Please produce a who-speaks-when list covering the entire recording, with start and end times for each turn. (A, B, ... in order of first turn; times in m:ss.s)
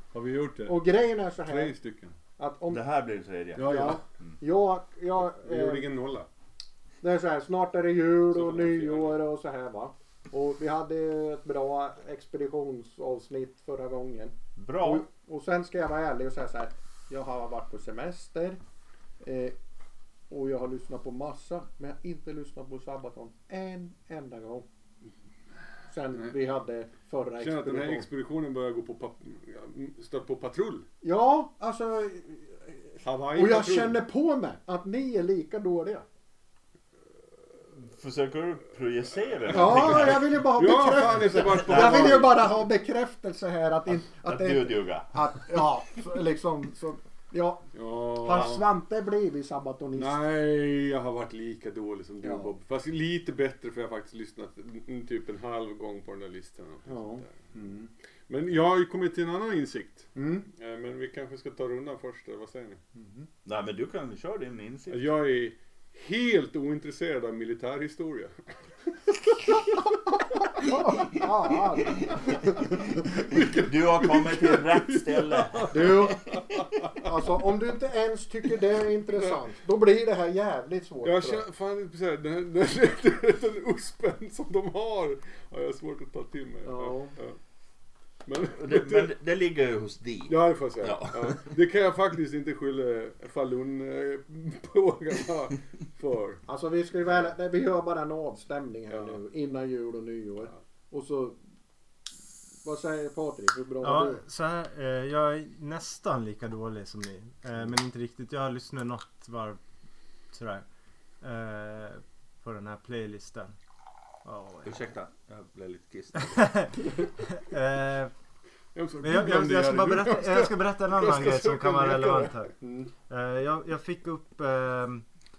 0:00.1-0:00.9 A
0:00.7-0:01.7 B
0:01.4-0:02.2 A
0:02.4-0:02.8 B
0:02.7-0:03.7 C
0:03.6-0:04.0 A
0:03.6-0:05.9 B
0:05.3-0:06.3 A
0:07.0-0:18.6 B
0:08.3-0:09.2 A
0:14.6-0:15.0 C
0:19.2-0:19.6 B
0:20.3-0:24.6 B
0:25.9-0:28.1 B
0:27.4-0:30.8 A
0:31.0-0:36.0 B
0:33.0-0:34.0 A
0:37.7-0:40.4 C
0:39.5-0:47.6 B
0:39.6-0:42.3 A
0:41.4-0:42.3 C
0:44.0-0:45.6 C
0:47.7-0:48.6 A
0:48.2-0:50.2 B
0:50.0-0:57.5 A
0:52.2-0:52.5 B
0:56.9-0:57.9 B
0:58.3-1:02.8 A
1:00.2-1:00.5 B
1:03.0-1:03.3 B
1:03.4-1:05.1 C
1:04.9-1:08.3 A
1:10.5-1:12.5 B
1:13.0-1:16.9 A
1:13.4-1:15.9 C
1:15.7-1:16.3 B
1:17.0-1:21.4 B
1:21.0-1:27.4 A
1:26.6-1:27.2 B
1:28.3-1:29.1 A
1:28.5-1:31.4 C
1:30.3-1:36.4 A
1:36.5-1:41.4 B
1:38.9-1:39.2 A
1:42.6-1:44.2 B
1:43.8-1:49.6 D
1:50.3-1:50.6 D
1:51.2-1:53.5 D
1:54.3-1:54.8 D
1:54.6-1:56.5 C
1:56.2-1:58.1 D
1:58.7-2:02.8 A
1:59.0-2:02.5 D
2:03.1-2:05.0 D